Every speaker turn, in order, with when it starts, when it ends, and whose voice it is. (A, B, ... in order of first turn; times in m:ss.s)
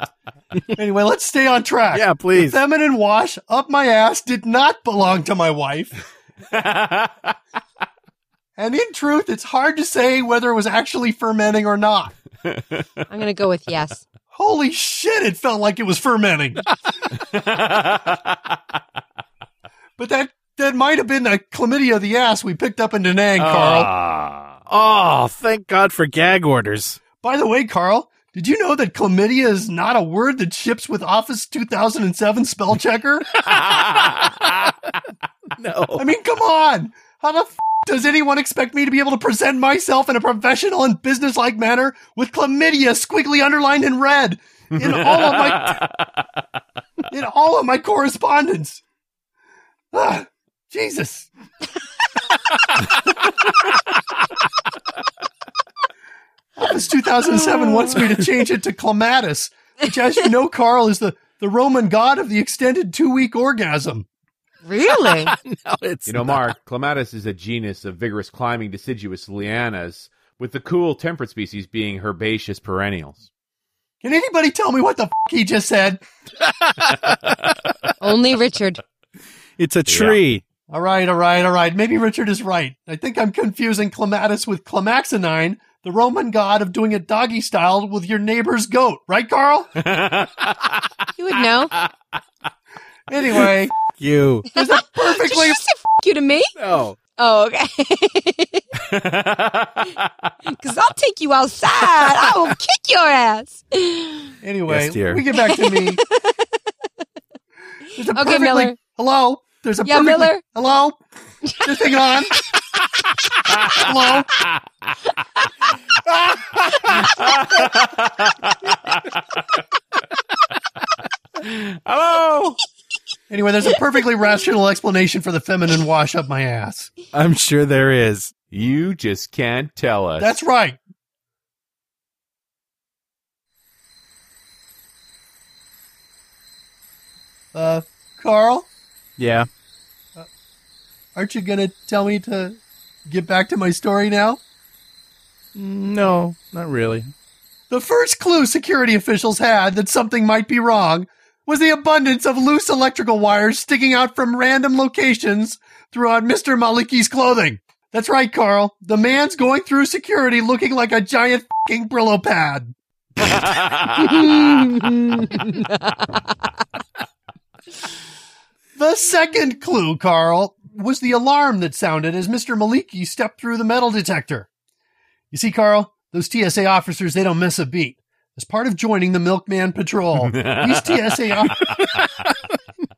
0:00.7-0:06.0 A
0:01.9-0:02.6 B
0:06.5-0:07.3 C
0:08.6-0:12.1 A
0:12.5-0:12.8 C
0:13.1-0:14.0 D
0:14.3-0:16.6 A
0:17.1-0:18.4 C
0:20.0-0:23.9 A
0:23.4-0:24.6 C
0:24.7-0:27.0 B
0:27.2-0:33.3 A
0:33.5-0:34.4 C
0:35.6-0:36.0 B
0:36.0-0:45.8 A
0:44.8-0:46.0 C
0:47.1-0:48.8 A
0:49.9-0:51.3 A
0:56.6-1:04.1 A
1:04.6-1:05.3 D
1:05.0-1:06.4 B
1:06.0-1:13.2 C
1:14.0-1:16.0 A
1:16.7-1:17.1 B
1:18.0-1:18.8 D
1:19.6-1:20.4 B
1:19.9-1:20.2 C
1:20.7-1:29.7 A
1:29.8-1:30.8 C
1:31.2-1:31.7 D
1:33.1-1:33.7 A
1:34.0-1:34.5 B
1:34.5-1:35.6 A
1:34.6-1:36.5 D
1:36.6-1:37.0 B
1:37.2-1:38.6 D
1:38.8-1:40.3 C
1:40.5-1:44.3 D
1:44.4-1:46.0 A
1:44.7-1:45.2 B
1:45.3-1:46.3 D
1:47.9-1:51.0 A
1:48.1-1:48.8 D
1:49.8-1:50.4 D
1:51.6-1:52.4 A
1:53.7-1:54.3 A
1:56.8-1:59.2 C
2:01.4-2:02.6 C
2:03.3-2:06.9 A
2:07.1-2:08.3 B
2:08.5-2:10.3 C
2:10.2-2:10.8 A
2:17.5-2:18.7 A
2:19.2-2:19.5 B
2:21.2-2:24.4 A
2:25.5-2:27.1 B
2:27.7-2:42.7 A
2:43.2-2:44.2 C
2:43.9-2:46.0 D
2:48.8-2:54.5 A
2:55.3-3:01.7 A
3:00.2-3:01.6 C